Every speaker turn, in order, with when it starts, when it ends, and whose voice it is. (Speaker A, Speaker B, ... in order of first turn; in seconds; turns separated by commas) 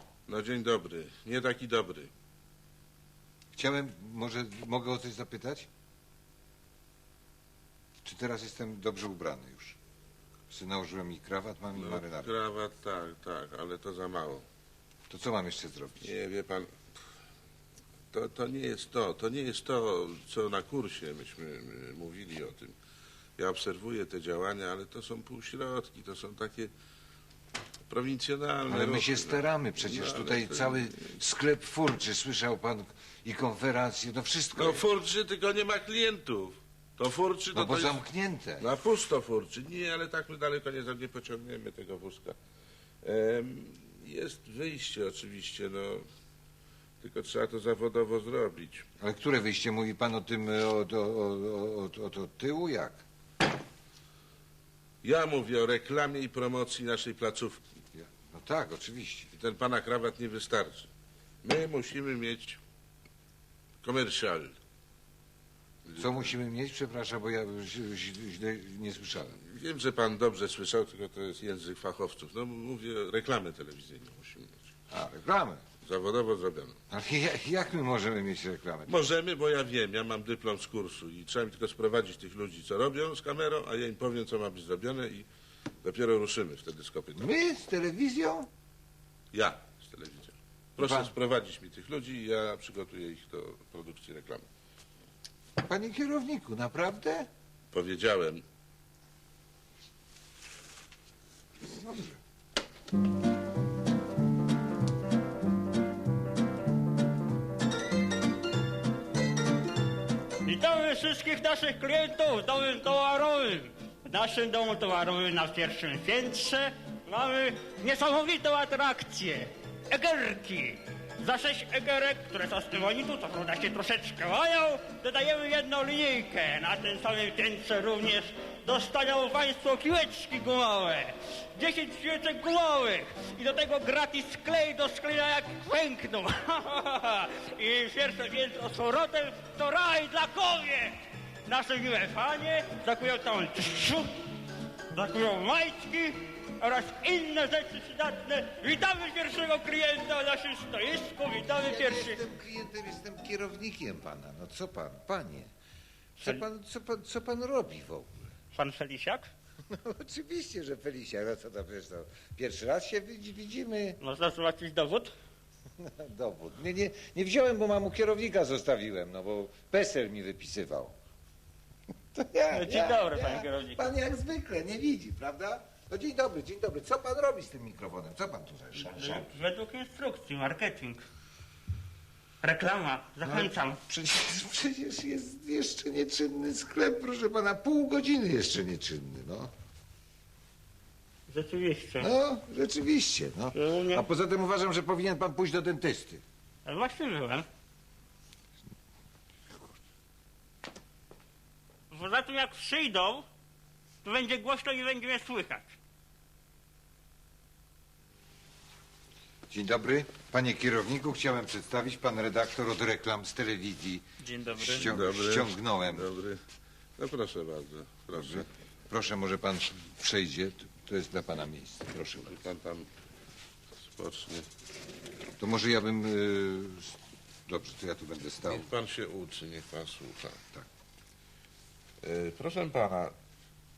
Speaker A: 0.3-2.1, Speaker B: 3.5-5.7, Speaker B: 8.0-9.8, Speaker B: 10.5-12.3, Speaker A: 11.8-14.4, Speaker B: 15.1-16.1, Speaker A: 16.0-16.8, Speaker A: 18.1-22.8, Speaker A: 23.4-26.7, Speaker A: 27.9-31.1, Speaker B: 28.7-34.8, Speaker A: 34.6-38.0, Speaker B: 37.5-38.7, Speaker A: 38.6-42.4, Speaker A: 43.0-46.0, Speaker A: 47.0-48.9, Speaker B: 49.0-53.0, Speaker A: 55.0-57.6, Speaker B: 57.9-59.3, Speaker A: 59.3-60.9, Speaker A: 61.4-62.6, Speaker A: 63.8-64.6, Speaker A: 65.9-66.3, Speaker B: 66.0-69.4, Speaker A: 69.5-74.6, Speaker B: 74.9-75.6, Speaker A: 75.8-76.8, Speaker B: 76.9-79.0, Speaker A: 78.9-85.3, Speaker A: 85.8-87.3, Speaker B: 87.2-88.5, Speaker A: 89.3-94.5, Speaker B: 90.8-91.1, Speaker B: 95.6-97.3, Speaker A: 97.7-98.4, Speaker B: 101.7-102.1, Speaker C: 110.5-144.1, Speaker C: 144.9-152.2, Speaker B: 151.4-155.5, Speaker B: 156.2-158.1, Speaker C: 158.5-159.3, Speaker B: 159.7-164.0, Speaker C: 164.0-165.1, Speaker B: 165.8-170.9, Speaker B: 172.1-179.3, Speaker C: 172.5-173.9, Speaker C: 178.8-181.1, Speaker C: 182.4-183.8, Speaker B: 183.2-189.5, Speaker C: 191.3-192.1, Speaker B: 192.0-196.2, Speaker C: 193.5-194.1, Speaker C: 196.7-197.5, Speaker C: 201.9-203.3, Speaker C: 204.0-205.7, Speaker B: 209.5-214.0, Speaker C: 214.2-214.8, Speaker B: 214.6-216.1, Speaker A: 214.6-216.4, Speaker A: 217.0-218.5, Speaker B: 218.1-222.4, Speaker A: 222.3-222.9, Speaker A: 223.8-224.5, Speaker B: 225.4-227.0, Speaker B: 227.5-228.7, Speaker A: 228.5-230.4, Speaker A: 232.0-233.1